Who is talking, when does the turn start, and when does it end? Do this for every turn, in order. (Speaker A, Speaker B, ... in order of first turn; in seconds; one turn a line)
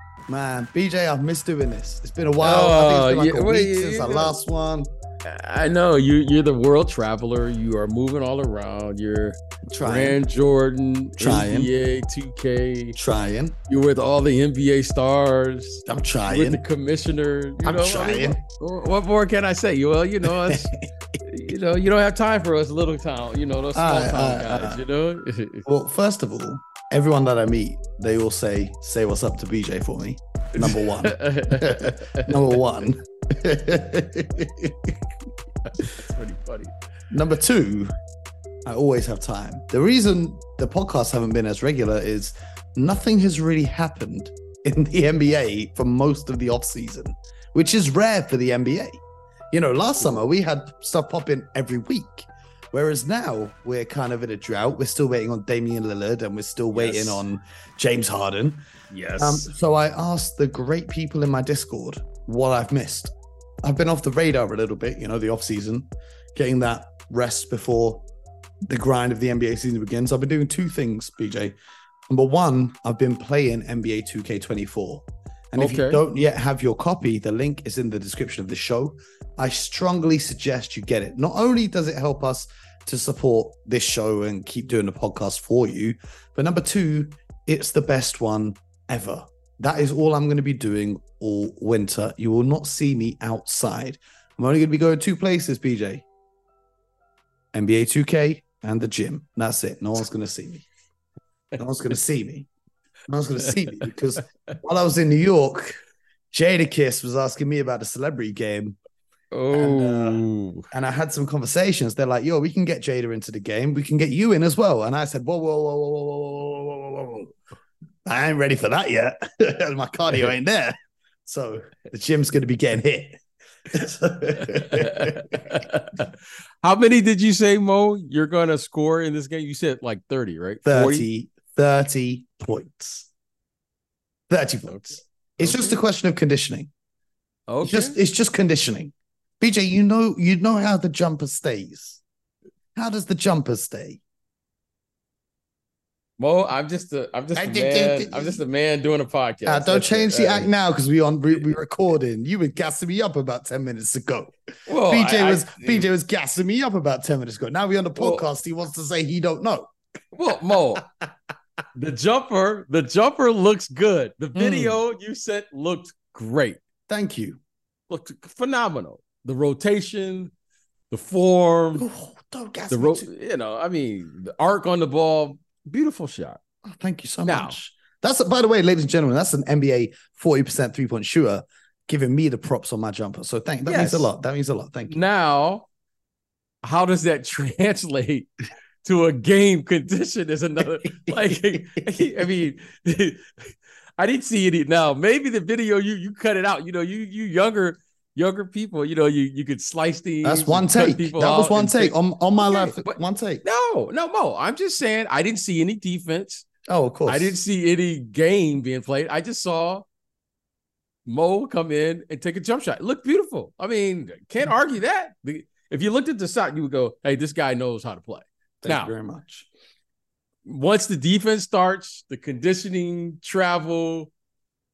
Speaker A: 0.3-4.9
Speaker B: 2.4-4.4
Speaker B: 5.2-13.0
Speaker A: 9.7-10.2
Speaker A: 11.2-11.7
Speaker A: 13.0-13.6
Speaker B: 13.7-20.7
Speaker A: 15.9-16.6
Speaker A: 17.6-18.4
Speaker A: 20.2-20.6
Speaker B: 21.2-25.7
Speaker A: 23.8-24.8
Speaker A: 25.6-35.0
Speaker B: 30.6-32.6
Speaker B: 35.6-36.7
Speaker A: 37.1-37.9
Speaker A: 38.7-58.6
Speaker B: 56.7-57.2
Speaker B: 58.9-59.5
Speaker A: 59.2-68.0
Speaker A: 68.7-71.6
Speaker A: 72.1-96.0
Speaker B: 75.6-76.0
Speaker A: 97.5-100.7
Speaker A: 101.6-102.5
Speaker A: 103.1-105.8
Speaker A: 106.3-108.8
Speaker B: 109.3-110.7
Speaker A: 109.5-117.3
Speaker A: 118.1-125.5
Speaker B: 124.5-131.1
Speaker A: 130.7-133.1
Speaker A: 134.3-136.7
Speaker B: 134.7-135.8
Speaker B: 137.5-138.0
Speaker A: 137.6-142.0
Speaker A: 142.8-144.0
Speaker B: 146.2-150.5
Speaker A: 147.3-148.4
Speaker A: 149.5-159.7
Speaker B: 154.7-155.9
Speaker B: 158.0-158.3
Speaker B: 160.1-160.8
Speaker B: 161.8-166.6
Speaker A: 164.4-164.8
Speaker A: 166.9-167.4
Speaker B: 167.9-170.3
Speaker B: 170.9-171.9
Speaker A: 171.8-173.1
Speaker B: 172.7-176.4
Speaker A: 176.7-185.0
Speaker B: 177.3-177.6
Speaker B: 183.7-184.1
Speaker B: 184.9-185.7
Speaker B: 186.6-188.3
Speaker B: 188.8-206.5
Speaker A: 200.2-203.4
Speaker A: 206.7-207.3
Speaker B: 207.1-209.9
Speaker B: 211.1-218.9
Speaker A: 218.6-219.5
Speaker B: 220.5-224.1